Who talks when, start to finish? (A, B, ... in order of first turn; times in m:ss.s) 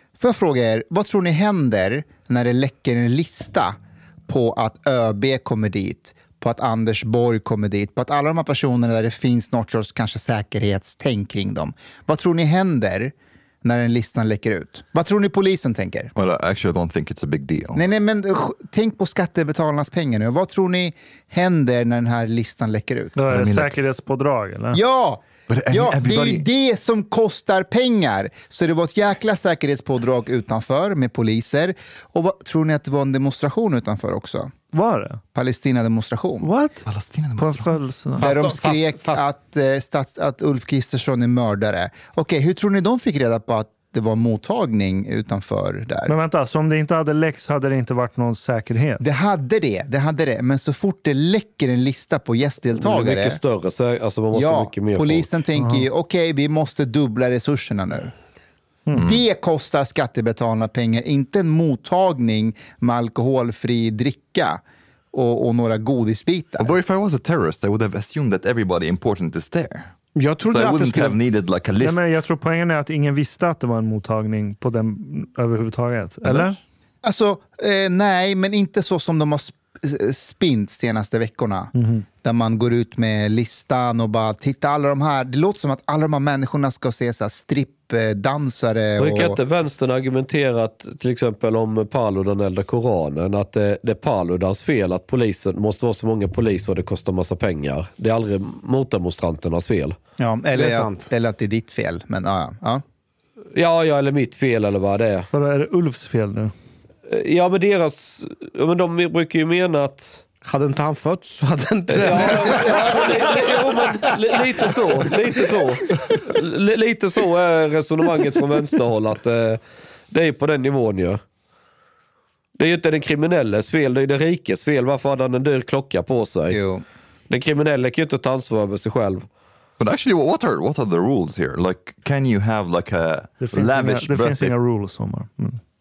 0:00.2-0:16.1 A
0:16.2-0:17.8 B
0:17.7-0:23.2 A
0:23.2-0:24.8 C
0:23.3-0:23.8 B
0:24.7-0:34.5 A
0:25.5-0:26.4 B
0:34.7-0:35.2 C
0:35.3-0:36.5 A
0:36.4-0:36.9 C
0:36.9-0:37.7 B
0:37.4-0:38.3 C
0:38.2-0:39.3 D
0:38.2-0:46.2 A
0:46.1-0:49.0 C
0:49.0-0:53.4 A
0:52.8-0:55.3 E
0:54.3-0:58.1 A
0:55.6-0:55.9 C
0:59.0-0:59.2 B
0:59.0-1:06.8 A
1:06.6-1:09.9 B
1:10.2-1:11.2 D
1:10.5-1:12.2 B
1:11.8-1:16.6 C
1:17.0-1:21.7 A
1:21.8-1:22.1 C
1:22.2-1:29.4 A
1:29.0-1:40.0 E
1:40.2-1:42.8 A
1:40.5-1:41.1 D
1:43.6-1:45.3 E
1:45.3-1:46.5 C
1:47.1-1:50.2 E
1:50.4-1:55.8 D
1:51.9-1:59.6 E
2:00.1-2:01.2 E
2:02.6-2:06.6 E
2:06.5-2:06.8 A
2:07.3-2:09.3 E
2:09.8-2:14.5 B
2:13.4-2:15.6 C